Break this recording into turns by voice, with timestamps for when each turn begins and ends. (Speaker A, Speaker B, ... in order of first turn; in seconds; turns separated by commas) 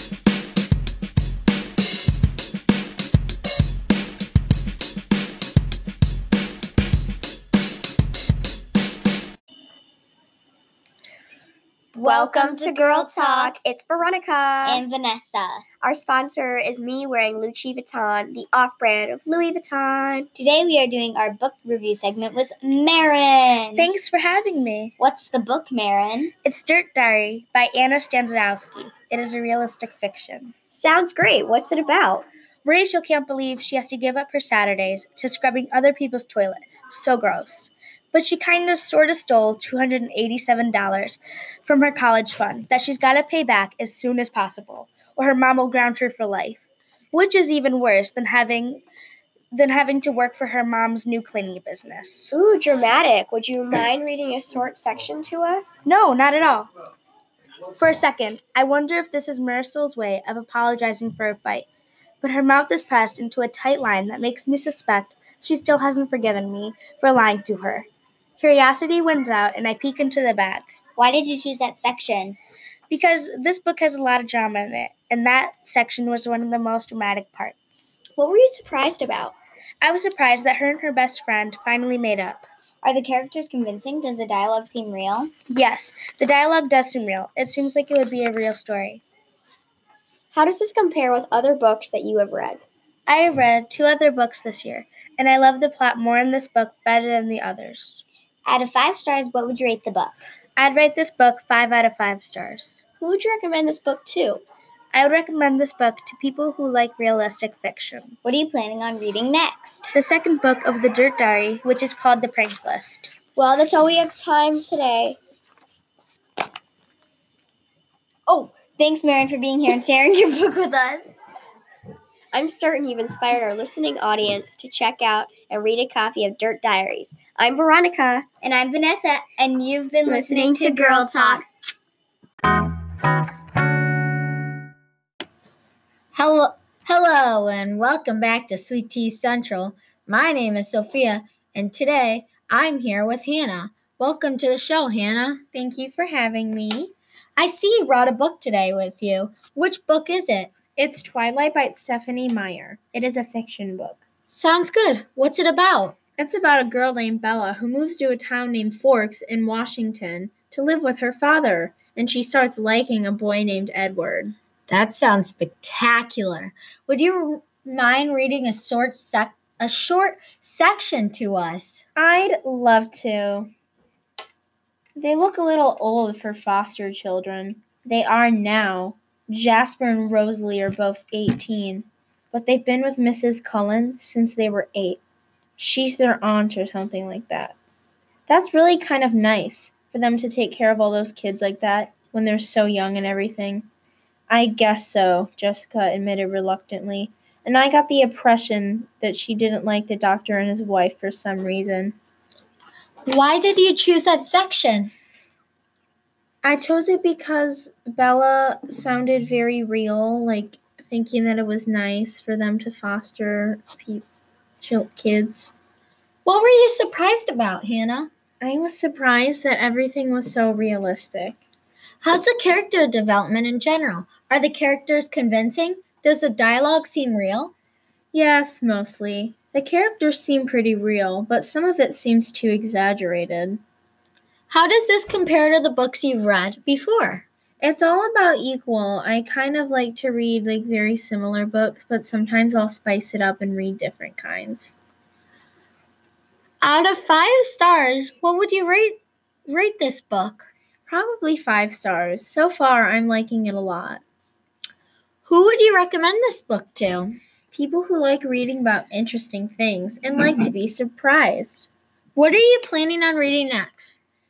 Speaker A: 11.9-14.8, Speaker B: 12.0-13.5, Speaker B: 14.6-15.7, Speaker A: 15.8-20.3, Speaker B: 20.4-23.9, Speaker C: 23.8-24.9, Speaker B: 25.0-26.3, Speaker C: 26.4-30.5, Speaker A: 30.7-32.3, Speaker C: 32.6-48.8, Speaker C: 49.5-52.3, Speaker A: 52.3-55.8, Speaker C: 55.9-56.7, Speaker C: 57.8-61.7, Speaker C: 62.2-67.9, Speaker C: 68.4-70.7, Speaker B: 71.0-72.4, Speaker C: 72.9-78.0, Speaker A: 78.1-79.4, Speaker C: 79.8-82.5, Speaker B: 82.8-85.3, Speaker C: 85.5-89.0, Speaker A: 90.3-92.6, Speaker C: 93.1-98.0, Speaker B: 98.5-100.2, Speaker C: 100.6-102.8, Speaker A: 103.0-104.4, Speaker C: 104.9-108.2, Speaker B: 108.2-109.9, Speaker C: 109.9-113.1, Speaker A: 113.4-115.2, Speaker B: 118.3-121.2, Speaker A: 122.3-128.3, Speaker B: 128.4-131.4, Speaker A: 130.1-131.4, Speaker C: 130.1-131.4, Speaker D: 136.1-145.5, Speaker E: 145.5-146.9, Speaker D: 147.4-150.5, Speaker E: 150.8-154.0, Speaker D: 154.3-156.0, Speaker E: 156.2-164.4, Speaker D: 164.7-171.8, Speaker E: 172.0-173.5, Speaker E: 175.0-185.0, Speaker E: 185.6-187.6, Speaker E: 188.3-193.7, Speaker E: 194.3-202.0, Speaker D: 203.1-204.9, Speaker E: 206.4-214.1, Speaker E: 214.6-215.5, Speaker D: 216.2-218.1, Speaker E: 218.4-221.4, Speaker D: 222.0-227.5, Speaker E: 228.1-233.6, Speaker D: 234.5-237.3, Speaker E: 237.6-244.8, Speaker D: 246.6-250.5, Speaker E: 250.9-254.0, Speaker D: 255.3-257.2, Speaker E: 257.5-261.7, Speaker D: 262.2-264.0